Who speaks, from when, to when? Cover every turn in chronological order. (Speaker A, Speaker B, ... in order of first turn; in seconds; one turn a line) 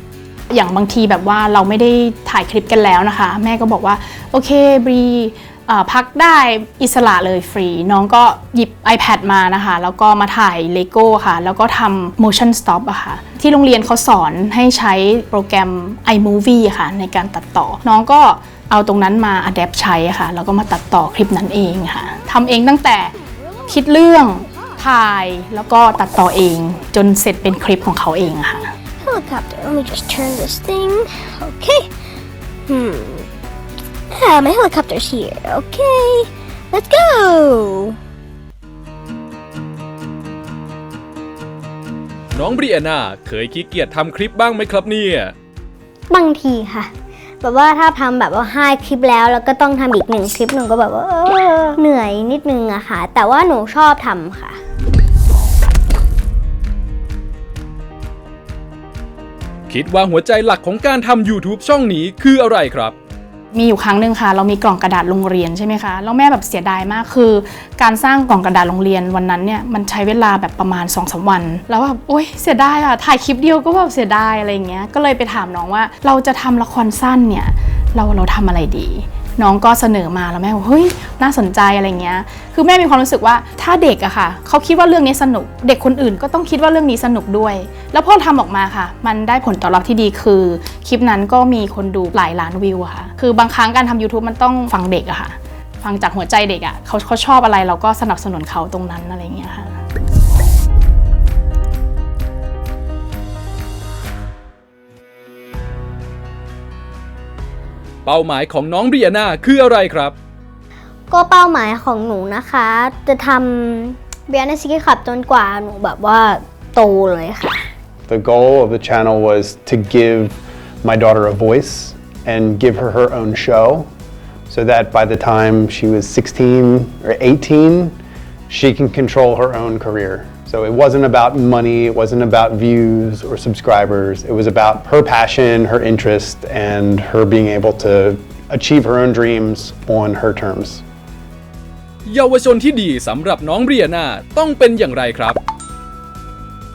Speaker A: 0.5-23.1
Speaker A: 23.7-28.7
Speaker B: 29.0-31.9
Speaker B: 32.7-33.2
Speaker B: 34.1-37.9
Speaker C: 42.3-45.3
Speaker B: 46.1-54.6
Speaker C: 59.7-63.0
Speaker A: 63.5-99.8
Speaker C: 108.0-110.2
Speaker B: 111.1-117.7
Speaker D: 118.1-123.9
Speaker D: 124.5-128.0
Speaker D: 128.5-140.8
Speaker C: 142.1-145.4